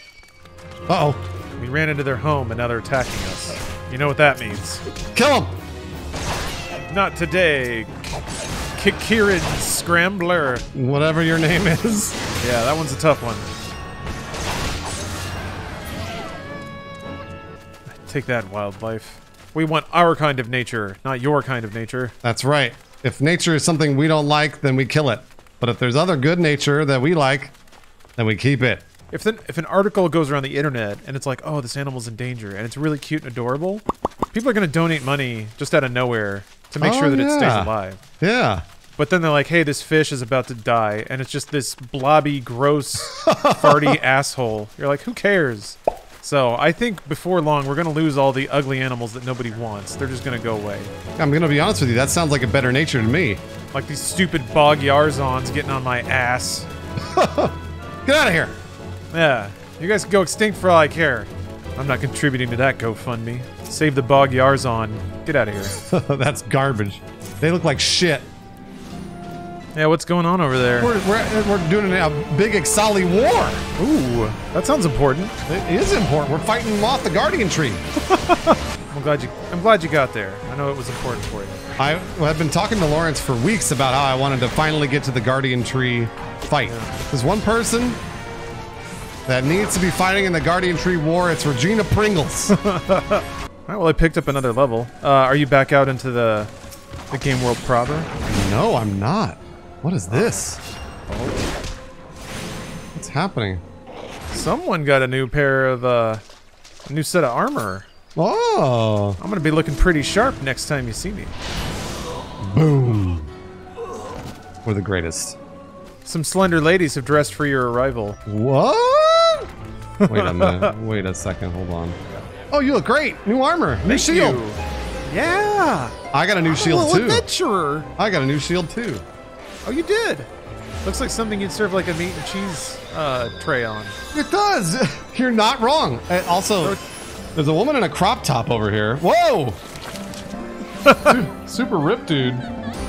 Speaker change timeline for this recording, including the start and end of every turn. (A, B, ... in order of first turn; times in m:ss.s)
0:00.9-0:01.2 A
0:01.6-0:04.8 B
0:05.1-0:05.6 A
0:06.9-0:08.0 B
0:08.8-0:10.7 B
0:10.7-0:12.2 A
0:12.4-0:13.5 B
0:17.9-0:22.1 B
0:22.2-0:27.5 A
0:28.2-0:28.8 A
0:29.1-0:38.0 B
0:36.8-0:38.6 A
0:39.0-0:50.9 B
0:43.1-0:44.0 A
0:51.2-0:53.4 A
0:53.7-0:56.7 B
0:57.0-0:58.6 A
0:59.1-1:05.8 B
1:05.9-1:08.3 A
1:09.8-1:10.9 B
1:10.8-1:13.6 A
1:13.8-1:15.3 B
1:15.5-1:17.8 A
1:18.1-1:21.6 B
1:21.8-1:28.0 A
1:26.7-1:26.9 B
1:29.3-1:32.6 A
1:32.5-1:36.5 B
1:37.1-1:38.1 B
1:38.3-1:40.6 A
1:40.1-1:40.5 B
1:41.1-1:41.4 B
1:42.9-1:43.6 A
1:44.3-1:46.2 B
1:46.9-1:47.9 B
1:48.2-1:49.2 A
1:49.2-1:51.3 B
1:52.4-1:53.3 A
1:54.6-1:55.4 A
1:56.0-1:58.2 B
1:58.3-1:59.5 A
2:00.0-2:00.7 B
2:00.1-2:02.0 A
2:02.5-2:04.4 A
2:03.8-2:05.9 B
2:06.1-2:07.3 A
2:06.5-2:07.9 B
2:08.0-2:09.0 A
2:09.6-2:10.3 B
2:10.8-2:14.0 B
2:14.1-2:16.8 A
2:17.4-2:19.6 A
2:20.9-2:21.2 B
2:21.0-2:22.4 A